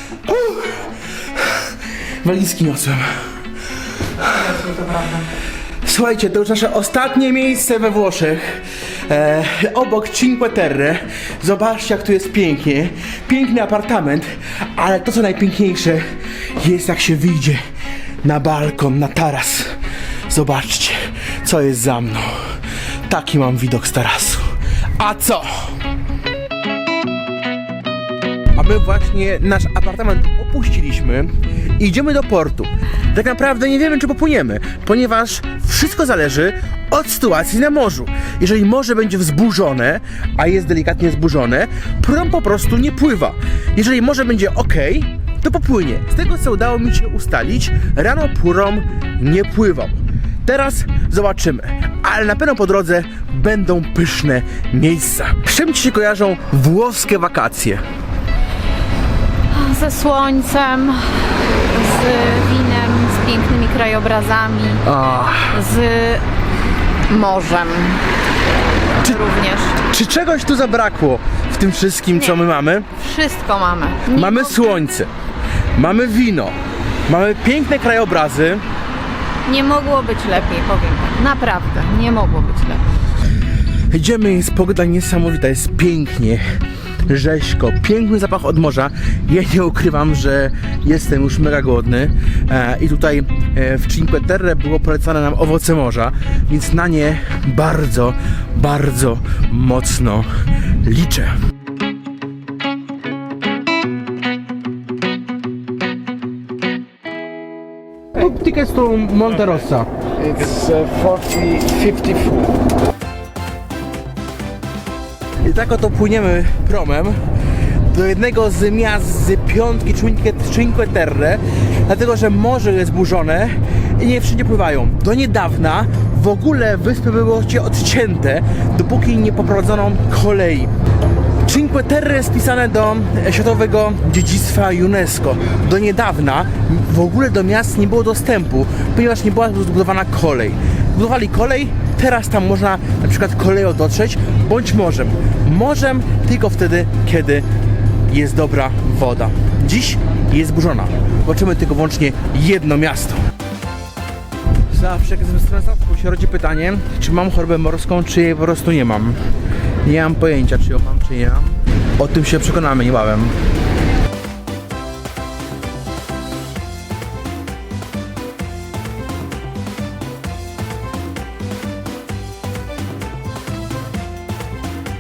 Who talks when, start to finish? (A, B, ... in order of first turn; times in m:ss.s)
0:00.2-0:01.6 A
0:02.2-0:03.1 A
0:04.2-0:04.6 A
0:04.6-0:05.2 B
0:05.8-0:16.0 A
0:16.6-0:17.6 A
0:18.2-0:19.7 A
0:20.3-0:22.3 A
0:23.1-0:24.5 A
0:25.0-0:25.8 A
0:28.5-0:57.8 A
0:59.5-1:04.8 B
1:04.9-1:05.6 A
1:05.5-1:06.2 B
1:07.1-1:08.0 B
1:09.0-1:09.8 B
1:09.8-1:12.9 A
1:13.0-1:14.6 B
1:14.1-1:15.1 A
1:15.8-1:16.5 A
1:17.1-1:18.6 A
1:19.4-1:22.8 B
1:23.9-1:26.4 A
1:27.1-1:40.3 A
1:40.8-1:41.3 A
1:48.1-1:49.9 A
1:50.2-1:52.6 C
1:55.4-1:57.2 A
1:57.9-2:10.7 A
2:11.4-2:27.4 A
2:28.1-2:33.2 A
2:34.7-2:39.2 A
2:39.8-2:43.3 A